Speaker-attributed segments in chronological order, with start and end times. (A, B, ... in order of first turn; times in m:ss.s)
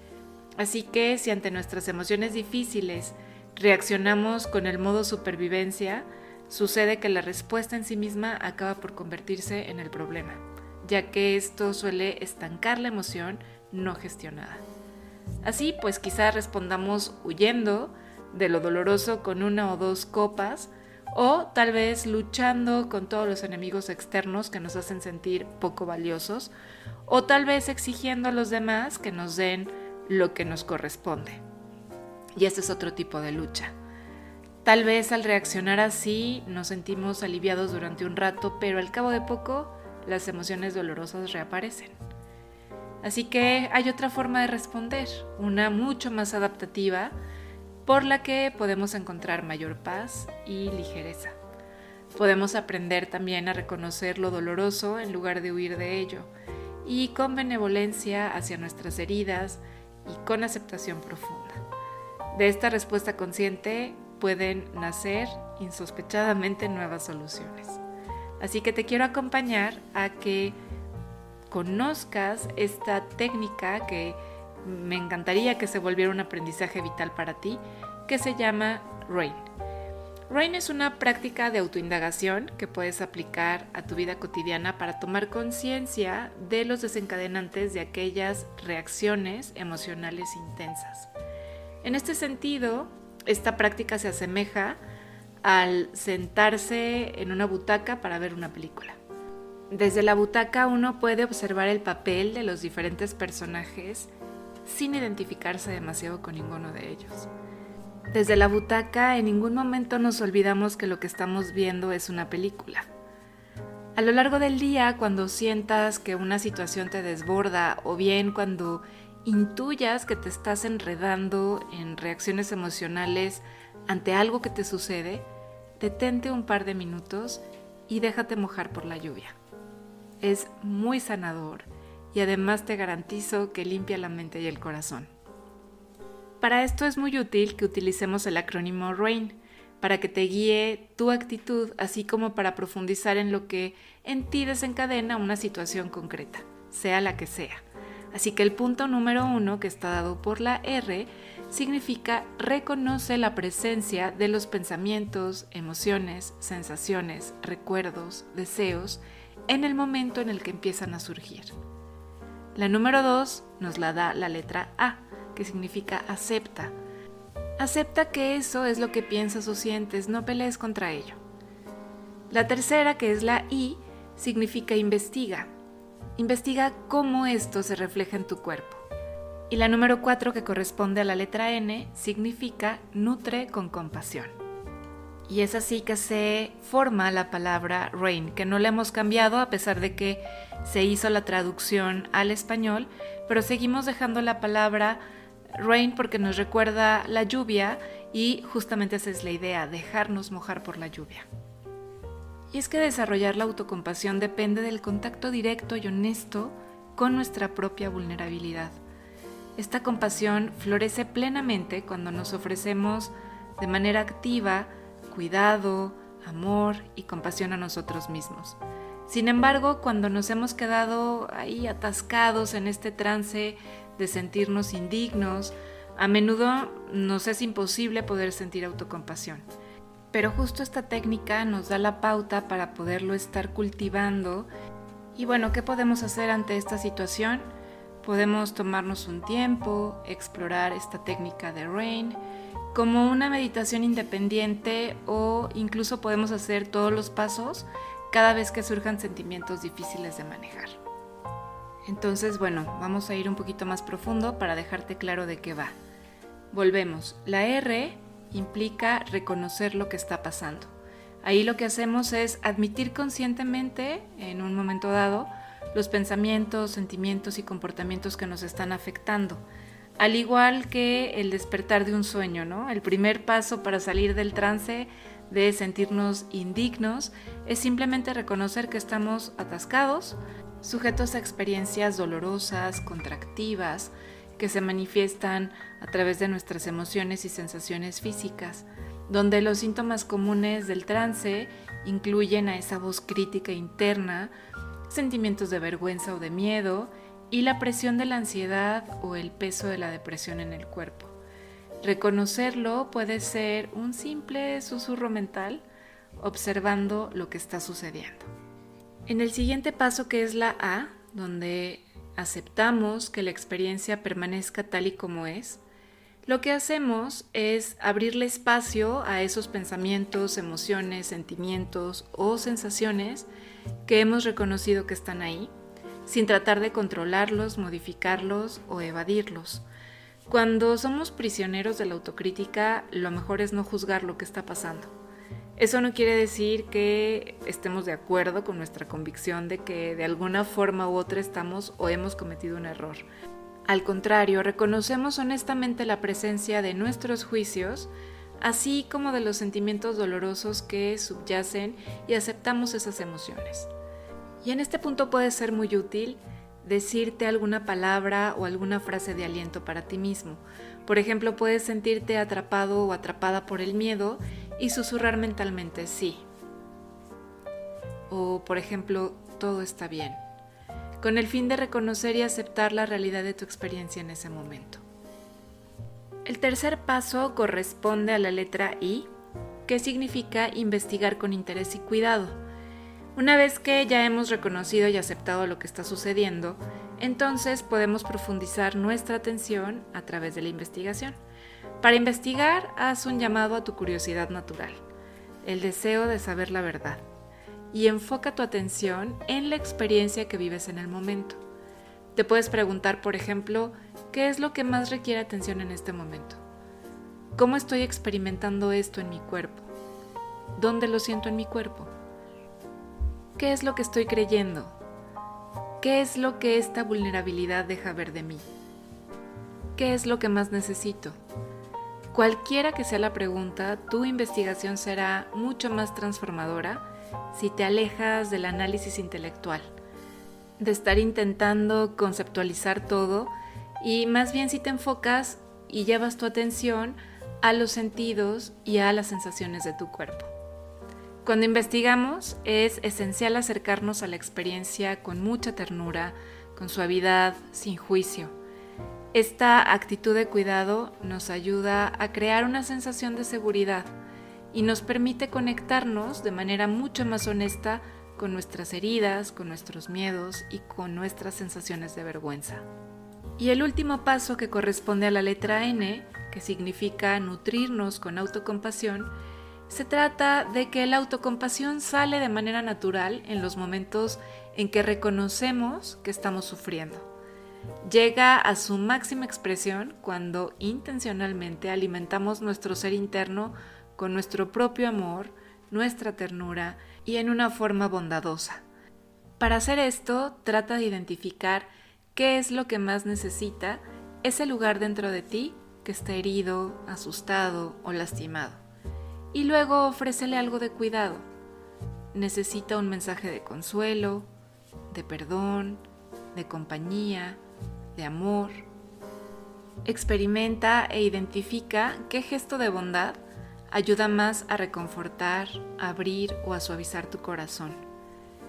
0:00.6-0:14.6 A
0:15.4-0:26.5 A
0:27.1-0:31.4 A
0:32.4-0:33.7 A
0:34.6-0:42.0 A
0:43.0-0:47.2 A
0:47.8-0:51.4 A
0:52.1-0:56.3 A
0:56.8-1:01.6 A
1:02.3-1:07.8 A
1:08.4-1:10.6 A
1:11.5-1:19.5 A
1:20.3-1:31.1 A
1:31.8-1:34.8 A
1:35.4-1:39.0 A
1:39.7-1:44.1 A
1:44.6-1:47.3 A
1:48.1-1:52.9 A
1:54.0-2:05.3 A
2:05.8-2:09.4 A
2:10.2-2:15.1 A
2:16.4-2:41.5 A
2:42.6-2:46.7 A
2:47.6-2:51.2 A
2:52.3-2:55.5 A
2:56.2-2:58.8 A
2:59.5-3:04.4 A
3:05.3-3:15.0 A
3:15.6-3:21.3 A
3:22.5-3:28.8 A
3:29.6-3:49.5 A
3:50.1-3:54.5 A
3:55.2-3:57.5 A
3:58.0-4:02.2 A
4:02.7-4:10.8 A
4:11.9-4:15.7 A
4:16.5-4:20.7 A
4:21.2-4:29.4 A
4:30.0-4:54.3 A
4:54.9-5:01.2 A
5:01.8-5:05.6 A
5:06.2-5:08.3 A
5:09.1-5:15.6 A
5:16.3-5:23.3 A
5:23.9-5:25.5 A
5:26.1-5:29.6 A
5:30.3-5:34.9 A
5:35.6-5:43.0 A
5:43.7-5:47.9 A
5:48.4-5:53.7 A
5:54.4-6:06.2 A
6:08.1-6:10.2 A
6:11.0-6:14.8 A
6:16.3-6:19.1 A
6:19.7-6:22.4 A
6:23.2-6:31.2 A
6:31.8-6:34.8 A
6:35.4-6:37.0 A
6:37.7-6:41.4 A
6:42.2-6:46.4 A
6:47.4-6:49.7 A
6:50.6-6:51.9 A
6:53.4-6:54.8 A
6:55.8-6:58.5 A
6:59.8-7:01.2 A
7:02.1-7:09.7 A
7:10.6-7:20.3 A
7:21.2-7:28.3 A
7:29.1-7:33.9 A
7:34.5-7:42.7 A
7:43.4-7:49.2 A
7:49.7-7:57.1 A
7:57.8-8:08.6 A
8:09.4-8:18.6 A
8:19.3-8:21.3 A
8:22.1-8:24.3 A
8:24.9-8:25.8 A
8:26.3-8:27.4 A
8:28.0-8:28.7 A
8:29.9-8:33.2 A
8:33.7-8:37.8 A